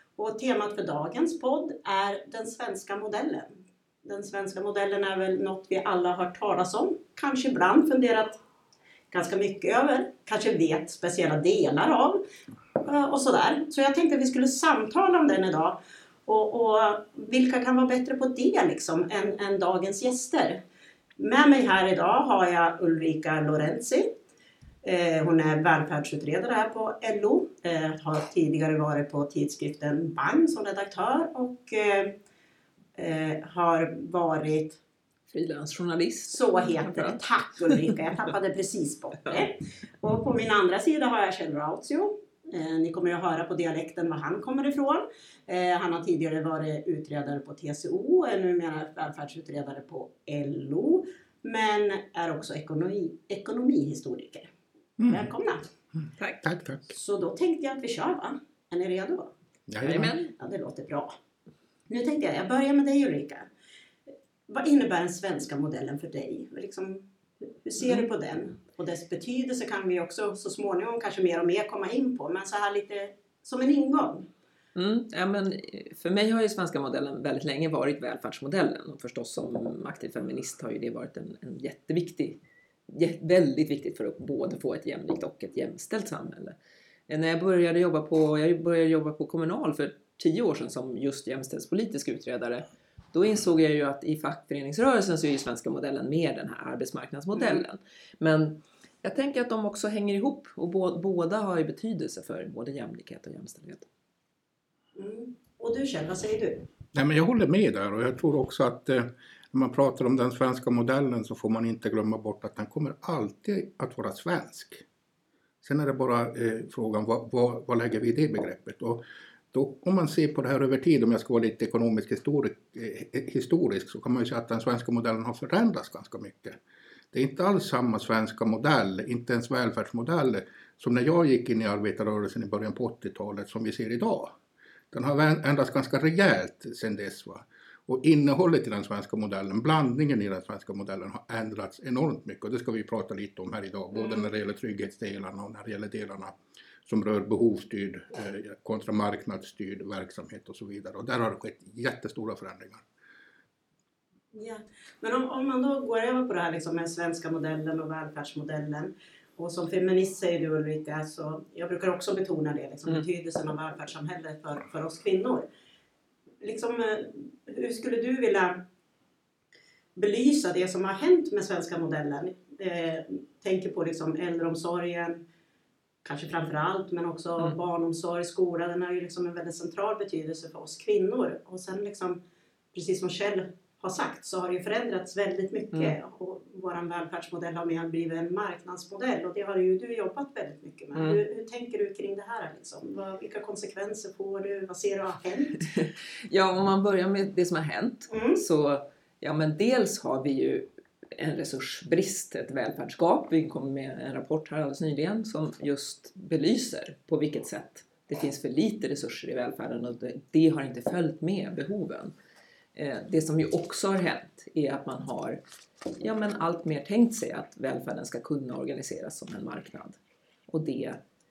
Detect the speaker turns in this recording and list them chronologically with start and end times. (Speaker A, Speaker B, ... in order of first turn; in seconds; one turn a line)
Speaker A: 0.2-8.4
Speaker A: 9.1-12.2
Speaker A: 12.8-20.6
Speaker A: 21.2-24.1
Speaker A: 24.8-32.2
Speaker A: 33.0-34.8
Speaker B: 35.3-37.2
Speaker A: 36.3-54.5
Speaker C: 55.0-55.3
Speaker A: 55.1-55.7
Speaker C: 56.0-56.8
Speaker A: 56.9-59.3
Speaker C: 59.7-60.1
Speaker B: 59.8-60.3
Speaker A: 60.4-61.1
Speaker A: 61.9-63.5
Speaker A: 64.5-74.3
Speaker B: 74.8-86.6
Speaker B: 87.1-103.9
Speaker A: 97.3-97.6
Speaker A: 105.0-106.7
Speaker C: 106.9-114.8
Speaker C: 115.6-126.6
Speaker C: 127.1-134.4
Speaker C: 134.9-152.8
Speaker A: 154.3-165.5
Speaker A: 166.4-168.7
Speaker A: 170.0-175.2
Speaker A: 176.1-182.2
Speaker A: 182.7-195.7
Speaker B: 190.9-191.2
Speaker B: 195.8-212.1
Speaker A: 198.1-198.4
Speaker B: 212.8-215.4
Speaker B: 216.0-221.0